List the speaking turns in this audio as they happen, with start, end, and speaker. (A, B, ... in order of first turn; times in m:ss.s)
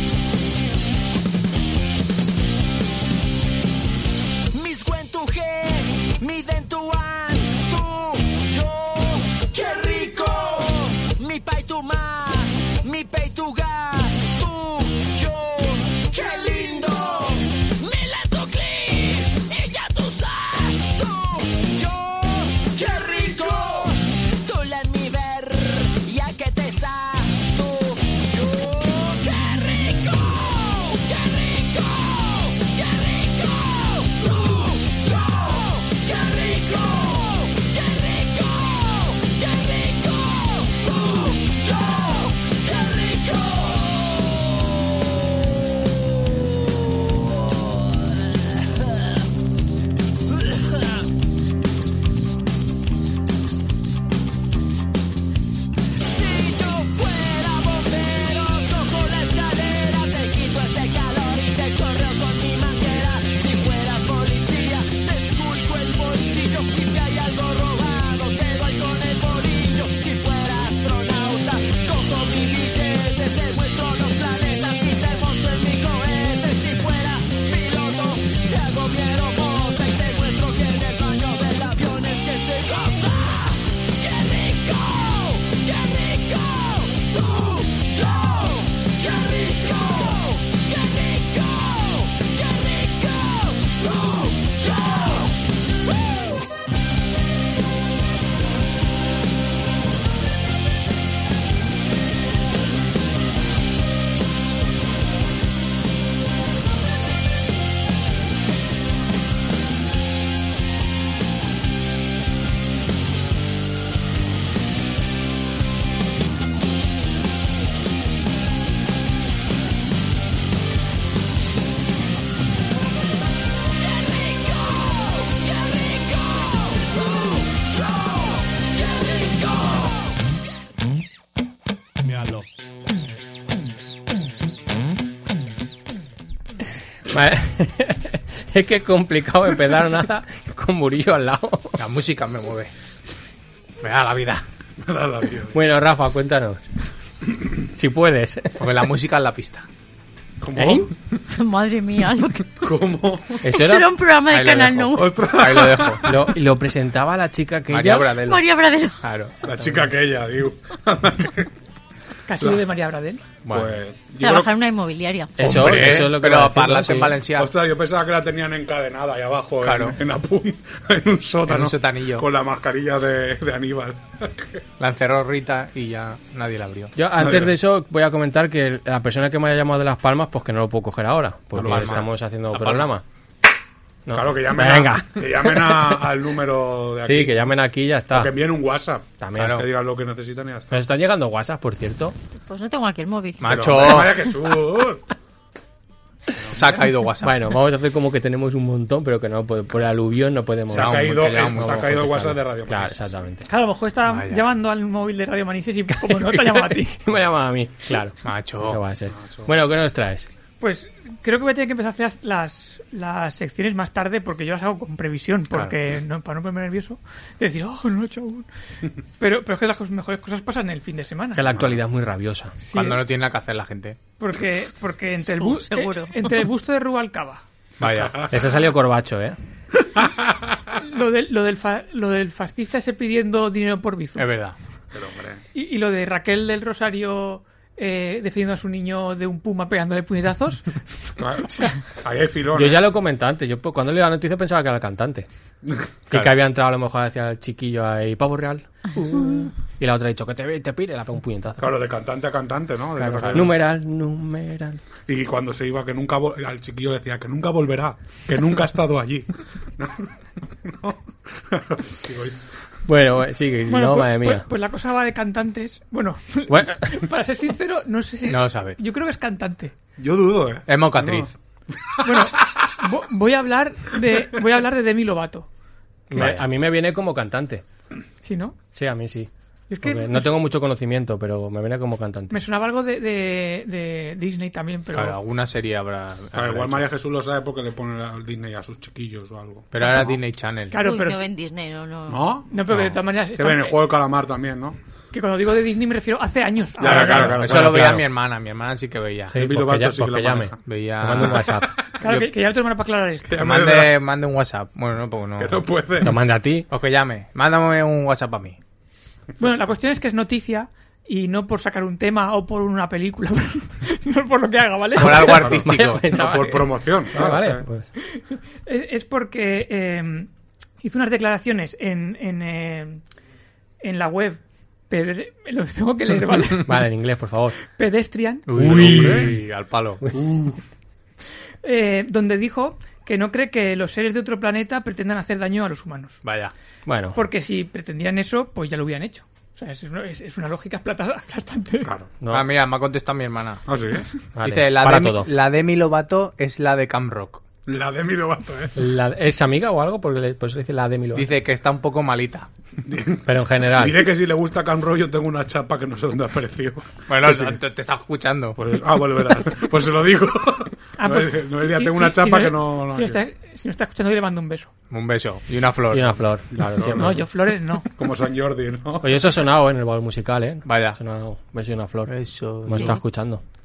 0:04.5-0:44.1 A
0:56.0-1:35.3 A
2:03.8-2:09.9 A
2:12.0-2:12.4 B
2:17.1-2:21.8 C
2:21.8-2:22.7 D
2:23.8-2:24.4 D
2:24.8-2:25.6 B
2:25.5-2:26.6 C
2:27.7-2:28.6 C
2:28.6-2:29.7 D
2:30.4-2:30.9 B
2:30.6-2:30.9 C
2:31.3-2:32.7 E
2:32.6-2:33.4 B
2:33.4-2:33.9 C
2:33.4-2:35.2 E
2:34.3-2:36.0 D
2:34.9-2:36.3 B
2:36.0-2:38.2 C
2:37.7-2:38.5 D
2:38.2-2:39.0 E
2:39.0-2:39.3 D
2:39.4-2:39.9 C
2:39.4-2:41.5 B
2:42.3-2:43.3 F
2:43.4-2:44.5 B
2:43.5-2:43.8 D
2:44.2-2:46.0 E
2:45.4-2:47.2 C
2:45.4-2:47.5 D
2:47.3-2:54.6 B
2:49.6-2:50.0 D
2:51.5-2:52.3 D
2:54.8-2:56.9 D
2:57.0-3:03.0 C
2:57.2-2:57.5 B
3:01.5-3:02.1 B
3:01.6-3:02.9 D
3:04.1-3:06.0 C
3:04.1-3:07.4 B
3:07.0-3:08.4 C
3:08.1-3:10.8 B
3:09.2-3:09.6 C
3:09.4-3:09.6 D
3:10.7-3:12.2 C
3:12.5-3:14.1 E
3:13.4-3:14.3 D
3:13.4-3:15.0 B
3:16.4-3:16.7 B
3:16.5-3:17.6 D
3:17.2-3:23.5 C
3:20.7-3:22.0 D
3:20.7-3:23.1 B
3:23.5-3:27.0 F
3:24.1-3:24.4 D
3:26.0-3:30.3 C
3:28.2-3:28.8 D
3:29.1-3:29.5 B
3:30.6-3:38.5 F
3:39.2-3:41.5 F
3:41.4-3:42.6 C
3:42.6-3:43.0 F
3:42.7-3:44.0 D
3:44.2-3:47.4 F
3:45.2-3:46.4 E
3:47.8-3:48.3 D
3:47.8-3:48.6 B
3:48.3-3:49.4 C
3:49.9-3:50.7 B
3:50.7-3:54.3 F
3:54.2-3:54.6 D
3:54.9-3:55.4 B
3:55.5-4:01.8 F
4:01.2-4:02.9 B
4:02.6-4:05.3 C
4:06.1-4:11.8 C
4:11.6-4:13.6 B
4:13.0-4:14.8 C
4:15.1-4:22.4 B
4:22.9-4:24.5 C
4:23.7-4:29.7 F
4:26.5-4:26.9 C
4:28.3-4:28.8 D
4:30.0-4:32.7 B
4:30.7-4:31.3 D
4:32.0-4:35.5 F
4:36.1-4:37.6 C
4:36.2-4:36.4 D
4:38.2-4:38.6 F
4:38.7-4:39.3 C
4:39.7-4:40.3 F
4:39.8-4:42.4 C
4:42.3-4:45.2 F
4:44.9-4:46.9 D
4:46.3-4:50.2 B
4:49.7-4:50.8 D
4:50.7-4:51.2 F
4:50.7-4:52.2 E
4:52.1-4:52.7 B
4:52.5-4:53.8 F
4:53.4-4:54.8 B
4:55.1-4:57.5 F
4:56.8-4:58.0 B
4:56.8-4:59.4 D
4:57.4-4:58.0 C
4:59.3-5:00.6 B
4:59.3-5:01.8 C
5:00.7-5:01.6 D
5:01.1-5:02.3 B
5:02.0-5:03.4 F
5:03.3-5:04.0 B
5:03.4-5:05.7 D
5:05.4-5:06.2 B
5:06.0-5:06.7 C
5:06.7-5:08.6 D
5:09.4-5:15.6 F
5:15.0-5:16.1 D
5:15.0-5:17.9 C
5:15.4-5:17.6 B
5:18.2-5:20.3 F
5:20.8-5:23.0 F
5:23.8-5:26.8 F
5:26.6-5:27.6 C
5:27.7-5:29.0 F
5:28.5-5:30.0 D
5:28.6-5:29.3 B
5:28.7-5:29.4 C
5:30.2-5:30.5 B
5:31.6-5:36.2 F
5:36.2-5:36.5 D
5:36.9-5:37.2 C
5:37.1-5:41.9 F
5:41.8-5:42.1 B
5:42.2-5:42.5 C
5:42.3-5:43.6 D
5:43.7-5:44.1 B
5:44.4-5:45.3 C
5:44.4-5:47.4 D
5:47.7-5:48.8 B
5:48.8-5:51.3 C
5:51.1-5:52.5 D
5:52.8-5:57.6 B
5:53.3-5:54.1 C
5:57.1-5:58.6 D
5:58.6-6:03.2 B
6:01.0-6:04.7 F
6:04.9-6:06.2 D
6:05.9-6:07.2 C
6:06.8-6:07.1 B
6:07.0-6:07.9 F
6:08.0-6:09.2 B
6:09.0-6:13.4 C
6:10.6-6:11.0 D
6:12.1-6:13.0 D